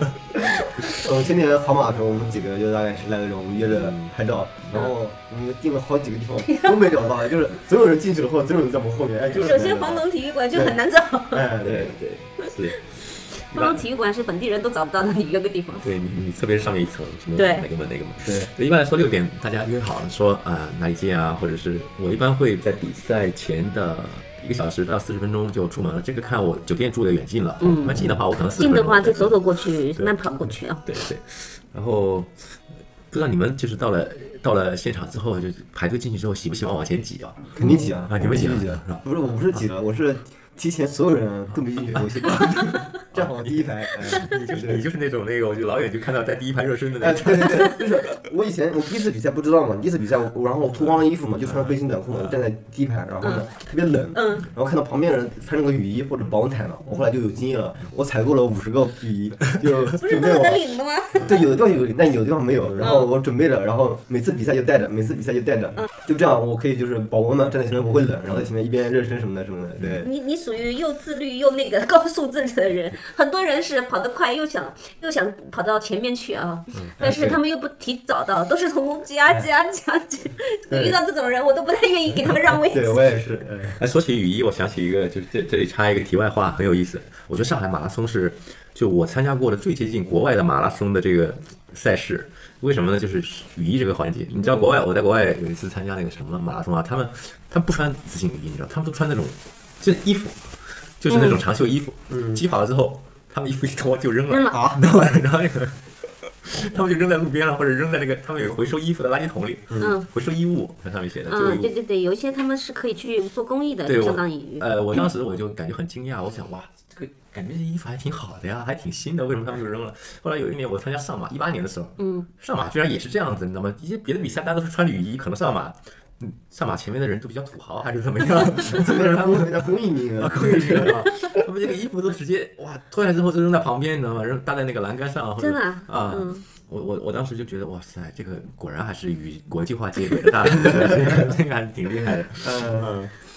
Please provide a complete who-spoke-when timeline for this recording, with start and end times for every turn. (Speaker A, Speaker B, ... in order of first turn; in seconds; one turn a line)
Speaker A: 0.4-0.9
Speaker B: 0.9-10.8
Speaker C: 3.7-4.0
Speaker A: 9.3-11.4
Speaker B: 11.3-12.0
Speaker C: 11.6-12.9
Speaker C: 13.5-13.8
Speaker A: 13.5-15.9
Speaker C: 15.8-30.1
Speaker A: 17.4-17.6
Speaker B: 18.2-18.5
Speaker A: 27.6-27.9
Speaker A: 28.6-30.8
Speaker C: 30.8-32.5
Speaker C: 33.1-39.0
Speaker B: 37.5-44.8
Speaker C: 41.9-48.0
Speaker B: 47.0-60.6
Speaker C: 51.4-52.4
Speaker A: 54.1-54.4
Speaker A: 60.0-61.3
Speaker B: 61.1-70.1
Speaker A: 70.0-83.0
Speaker B: 77.0-77.4
Speaker B: 80.7-81.0
Speaker B: 82.7-83.8
Speaker C: 83.8-105.9
Speaker A: 101.1-101.4
Speaker B: 102.1-102.4
Speaker A: 104.3-104.6
Speaker B: 104.5-104.8
Speaker C: 106.4-111.7
Speaker A: 109.8-110.0
Speaker A: 111.3-114.6
Speaker C: 113.8-143.1
Speaker A: 122.0-122.3
Speaker B: 128.7-130.9
Speaker A: 135.4-136.4
Speaker B: 142.4-143.0